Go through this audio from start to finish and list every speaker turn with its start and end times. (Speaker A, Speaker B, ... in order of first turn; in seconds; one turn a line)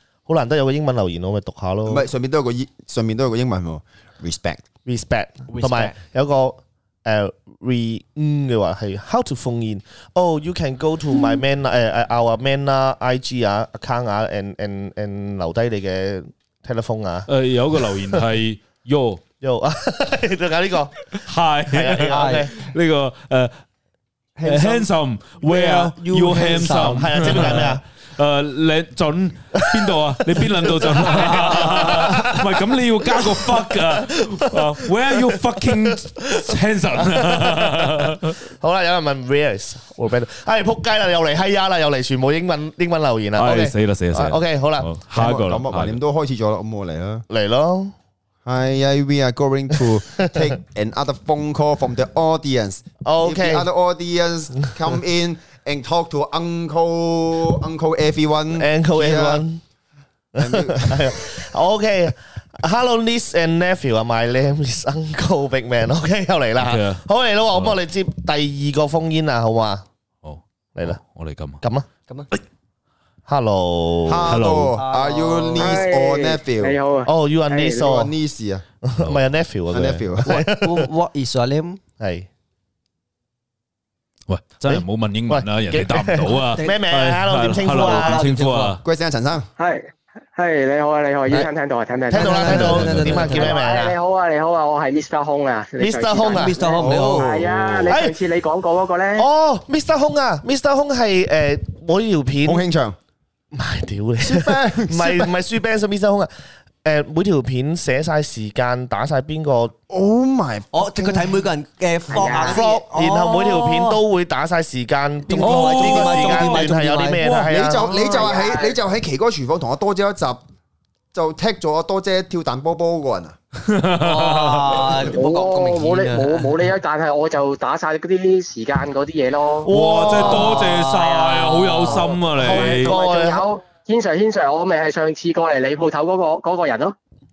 Speaker A: 0.3-2.1
Speaker B: 1.9-4.6
Speaker A: 4.9-17.3
Speaker C: 5.5-6.0
Speaker D: 17.3-19.2
Speaker A: 17.9-18.2
Speaker A: 19.4-22.6
Speaker D: 21.1-23.6
Speaker C: 22.0-22.5
Speaker C: 24.4-24.9
Speaker D: 24.4-38.4
Speaker C: 25.4-27.5
Speaker A: 26.9-27.8
Speaker A: 29.7-32.6
Speaker A: 33.2-44.9
Speaker D: 43.4-46.0
Speaker B: 45.1-47.3
Speaker A: 47.3-47.9
Speaker B: 48.5-59.5
Speaker A: 53.0-53.7
Speaker A: 58.5-59.6
Speaker A: 60.4-69.8
Speaker B: 60.4-61.1
Speaker D: 66.6-67.0
Speaker D: 70.2-71.6
Speaker A: 71.6-71.9
Speaker A: 73.3-74.4
Speaker B: 74.1-76.8
Speaker D: 74.3-74.8
Speaker C: 74.8-75.9
Speaker E: 75.6-77.8
Speaker A: 77.1-78.1
Speaker B: 77.8-78.7
Speaker A: 78.8-80.9
Speaker B: 79.7-80.4
Speaker C: 80.3-81.8
Speaker A: 82.0-82.3
Speaker D: 84.3-88.8
Speaker A: 84.7-88.2
Speaker C: 87.8-88.8
Speaker B: 88.8-89.5
Speaker E: 89.6-99.3
Speaker A: 92.1-94.0
Speaker C: 92.1-93.6
Speaker A: 95.8-96.6
Speaker C: 96.3-97.5
Speaker B: 96.8-97.9
Speaker A: 97.9-98.2
Speaker A: 99.2-102.6
Speaker B: 102.4-103.0
Speaker A: 103.5-106.3
Speaker B: 104.2-105.3
Speaker A: 106.8-109.7
Speaker B: 109.9-111.4
Speaker C: 110.7-114.0
Speaker E: 112.1-112.7
Speaker A: 112.5-118.0
Speaker C: 115.3-117.3
Speaker D: 115.4-117.5
Speaker B: 117.5-120.4
Speaker C: 117.8-118.4
Speaker E: 117.9-118.8
Speaker B: 121.1-123.4
Speaker D: 123.7-124.9
Speaker C: 124.0-126.6
Speaker E: 125.1-129.7
Speaker A: 129.7-130.6
Speaker D: 129.7-132.9
Speaker E: 130.2-137.0
Speaker A: 132.3-133.5